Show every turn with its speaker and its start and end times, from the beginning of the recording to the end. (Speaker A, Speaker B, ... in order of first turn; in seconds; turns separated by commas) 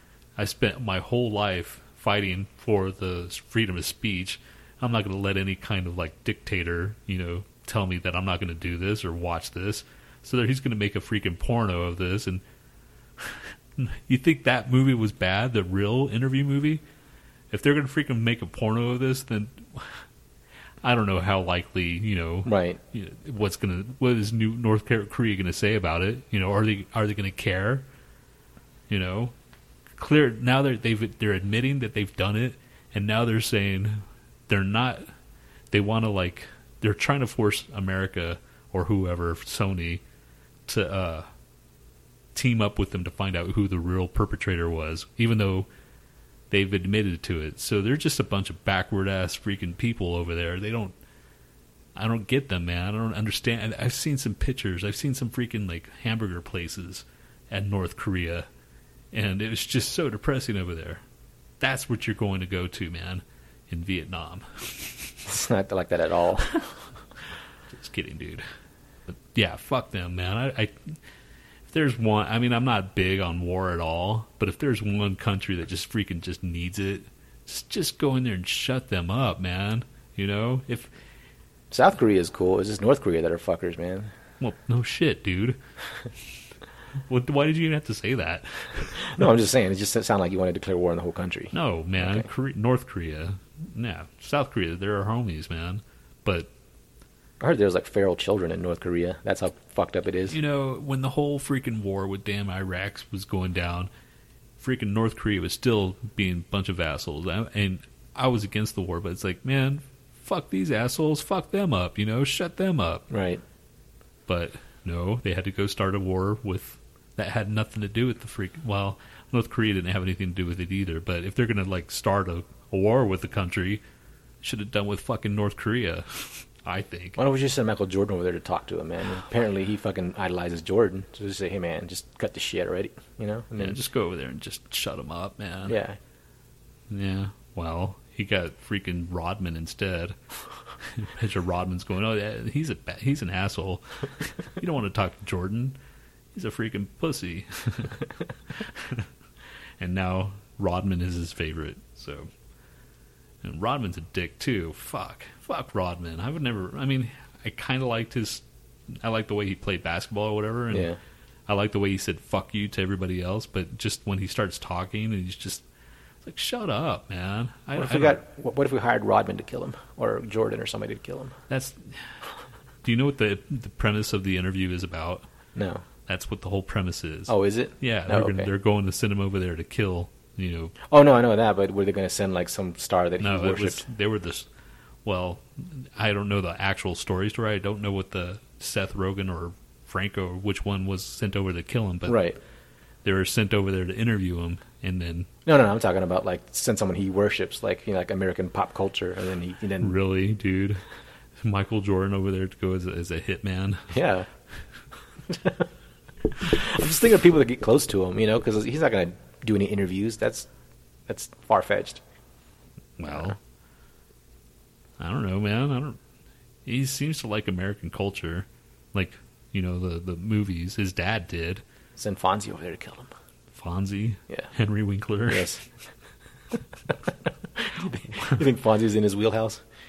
Speaker A: 0.4-12.4, Speaker A: 13.2-16.8, Speaker A: 17.5-20.0, Speaker A: 20.8-27.9, Speaker B: 22.4-22.8, Speaker A: 28.9-29.3, Speaker A: 30.0-35.1, Speaker A: 35.7-40.0, Speaker A: 40.6-41.3, Speaker A: 42.3-45.7, Speaker A: 46.5-51.0, Speaker A: 51.9-58.5, Speaker A: 59.1-61.0, Speaker A: 61.6-65.2, Speaker B: 65.2-66.6, Speaker A: 67.7-68.5, Speaker A: 69.1-71.0, Speaker A: 71.7-80.9, Speaker B: 81.7-84.1, Speaker A: 84.4-85.6, Speaker A: 87.0-89.0, Speaker B: 88.9-92.3, Speaker A: 91.5-96.5, Speaker B: 97.4-100.4, Speaker A: 100.3-103.9, Speaker A: 104.6-113.0, Speaker B: 113.1-113.4, Speaker A: 114.3-123.8, Speaker A: 124.4-127.2, Speaker B: 127.2-133.8, Speaker A: 133.6-135.8, Speaker B: 135.7-136.0, Speaker A: 136.9-140.2, Speaker A: 140.8-145.8, Speaker A: 146.3-149.1, Speaker A: 149.8-152.3, Speaker A: 153.4-160.9, Speaker B: 160.7-161.0, Speaker A: 161.5-165.6, Speaker A: 166.2-168.2, Speaker B: 167.8-171.3, Speaker A: 171.5-172.1, Speaker A: 172.8-175.2, Speaker B: 175.5-175.8, Speaker A: 176.1-180.7, Speaker B: 177.3-178.5, Speaker B: 180.9-183.8, Speaker A: 183.2-184.5, Speaker A: 185.0-192.2, Speaker B: 192.1-192.4, Speaker A: 193.0-195.3, Speaker B: 195.4-199.9, Speaker A: 199.8-200.8, Speaker A: 201.4-203.9, Speaker B: 203.9-204.3, Speaker B: 205.3-205.7, Speaker B: 206.3-210.5, Speaker B: 211.1-212.0, Speaker A: 213.0-213.4, Speaker B: 213.1-213.3, Speaker A: 215.0-216.0, Speaker A: 216.6-221.6, Speaker B: 222.0-223.1, Speaker A: 223.5-225.5, Speaker B: 225.3-225.6, Speaker B: 227.6-229.6